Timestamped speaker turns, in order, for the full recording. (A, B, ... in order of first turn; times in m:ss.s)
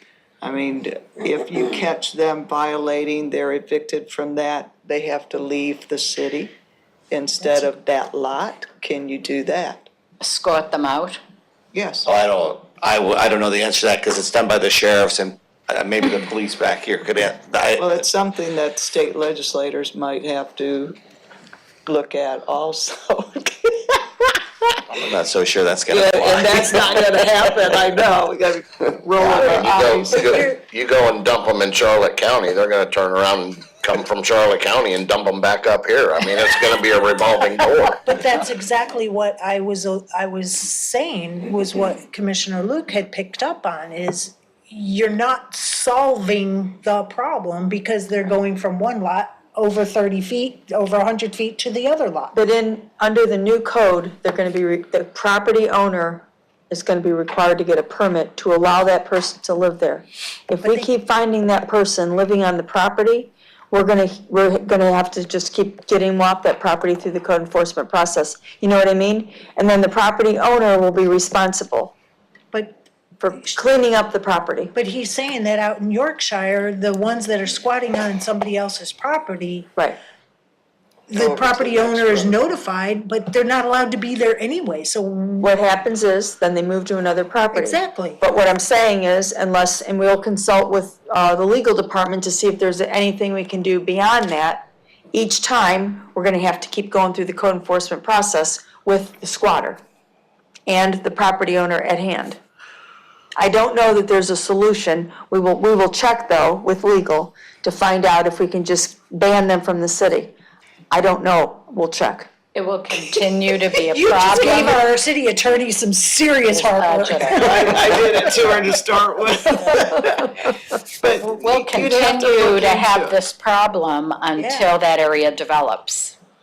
0:00.4-0:06.5 A
0:07.1-0:09.9 A
0:10.2-0:11.2 B
0:11.7-0:12.1 A
0:12.1-0:18.0 C
0:17.8-0:21.0 A
0:21.9-0:24.4 A
0:24.9-0:26.8 C
0:25.9-0:30.6 A
0:29.2-0:38.0 D
0:30.3-0:30.6 E
0:38.0-0:52.3 E
0:52.3-1:11.9 F
1:00.6-1:00.9 E
1:12.5-1:12.8 E
1:13.2-1:14.7 F
1:14.8-1:19.7 E
1:21.1-1:25.5 E
1:25.4-1:39.8 F
1:27.5-1:28.2 E
1:40.7-1:42.4 F
1:43.4-1:50.4 F
1:50.9-1:52.3 F
1:52.6-1:54.9 B
1:53.7-1:57.6 E
1:56.4-1:57.8 B
1:57.4-2:03.2 A
2:01.2-2:06.2 B
2:04.4-2:04.7 E